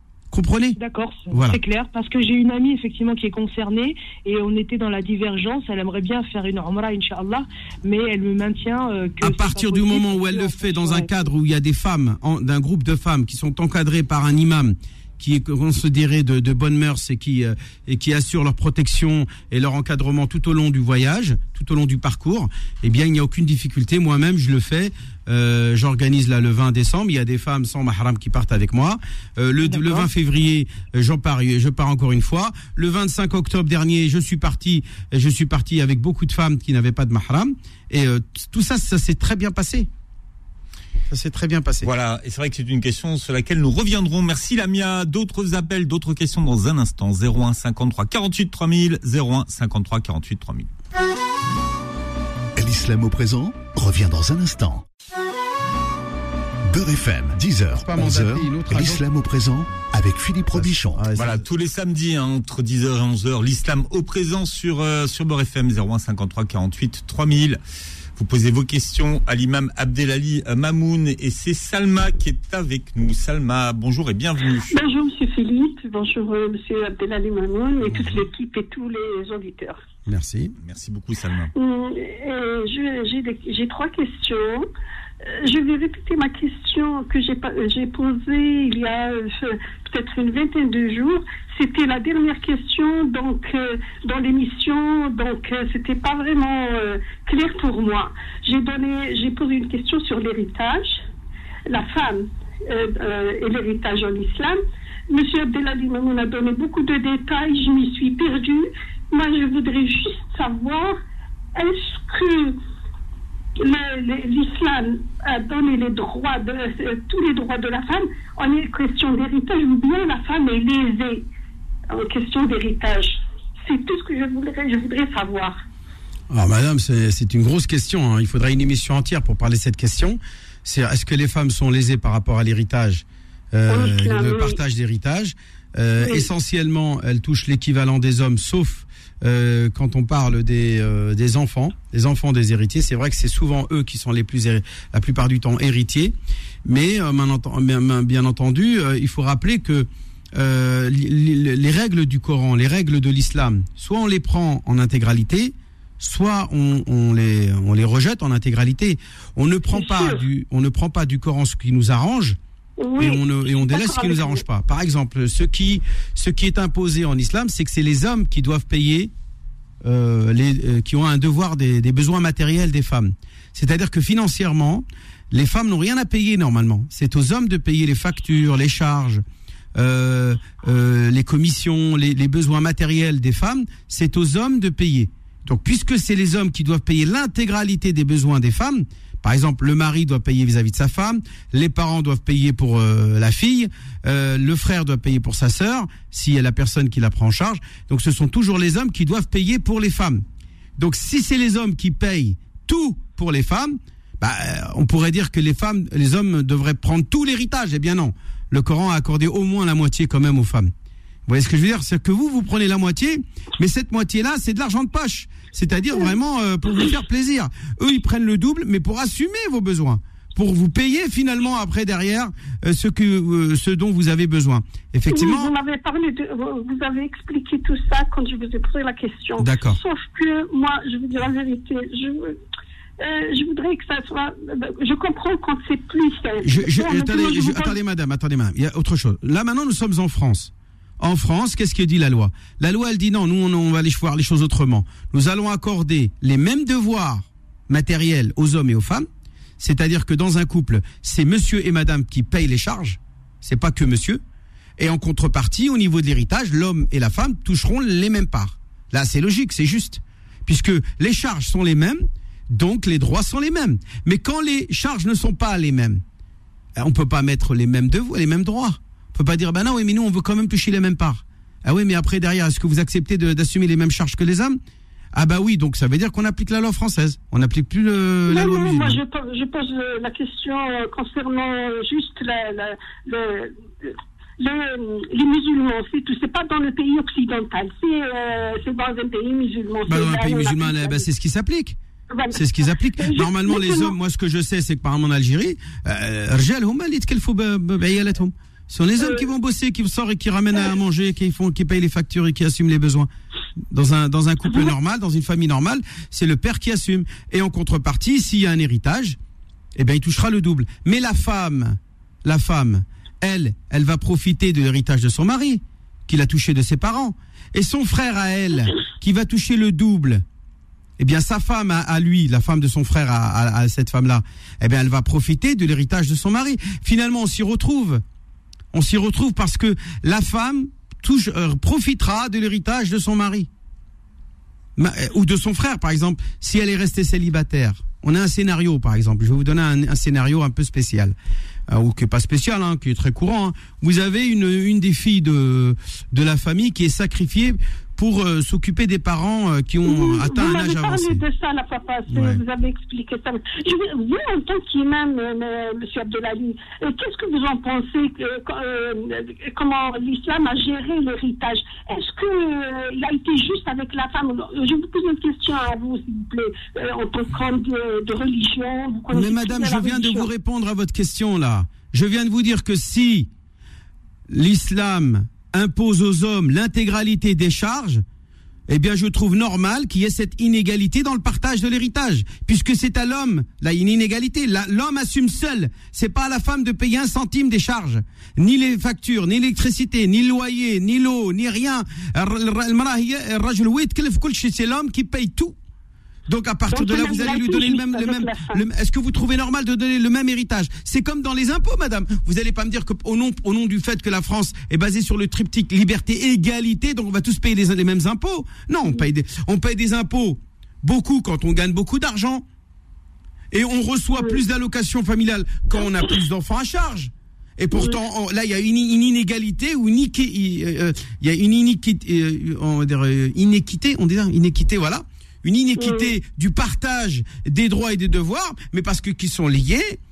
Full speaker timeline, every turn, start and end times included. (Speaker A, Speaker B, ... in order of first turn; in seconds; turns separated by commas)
Speaker A: 0.3-0.8, Speaker B: 0.8-11.2, Speaker A: 1.3-1.6, Speaker A: 9.2-39.9, Speaker B: 29.6-30.1, Speaker A: 41.1-41.9, Speaker C: 41.8-50.7, Speaker D: 52.5-54.9, Speaker D: 56.7-61.1, Speaker A: 57.8-59.0, Speaker A: 60.5-61.4, Speaker C: 61.1-67.6, Speaker C: 68.1-74.7, Speaker E: 74.7-79.8, Speaker A: 77.8-78.3, Speaker A: 80.1-80.5, Speaker C: 80.6-81.5, Speaker E: 81.5-84.7, Speaker E: 85.2-101.0, Speaker E: 101.7-104.6, Speaker E: 105.1-111.0, Speaker E: 111.5-112.6, Speaker E: 113.6-121.2, Speaker E: 121.9-125.6, Speaker A: 126.3-162.4, Speaker E: 133.7-134.6, Speaker E: 136.0-136.3, Speaker E: 159.7-160.2, Speaker E: 162.8-164.4, Speaker A: 163.0-169.1, Speaker A: 169.8-179.2, Speaker A: 179.8-200.2, Speaker A: 200.8-210.7, Speaker A: 211.3-225.5, Speaker E: 225.1-232.4, Speaker A: 229.4-229.8, Speaker E: 233.0-237.8, Speaker A: 236.4-249.1, Speaker A: 249.6-254.2, Speaker A: 254.8-266.0, Speaker A: 266.8-274.6, Speaker A: 275.1-279.0, Speaker E: 278.3-291.0, Speaker A: 289.9-291.8, Speaker E: 292.1-293.9, Speaker A: 292.3-303.1, Speaker E: 299.0-299.2, Speaker A: 303.7-309.2, Speaker A: 309.8-320.2, Speaker A: 321.0-328.0, Speaker A: 328.7-333.5, Speaker A: 334.8-341.1, Speaker A: 341.7-351.2, Speaker E: 349.8-370.3, Speaker A: 352.1-352.4, Speaker A: 369.1-373.3, Speaker A: 374.3-378.0, Speaker A: 378.7-395.6, Speaker A: 396.3-412.4, Speaker E: 396.7-398.6, Speaker A: 413.5-430.0, Speaker E: 415.8-416.2, Speaker E: 417.7-418.0, Speaker E: 425.8-426.1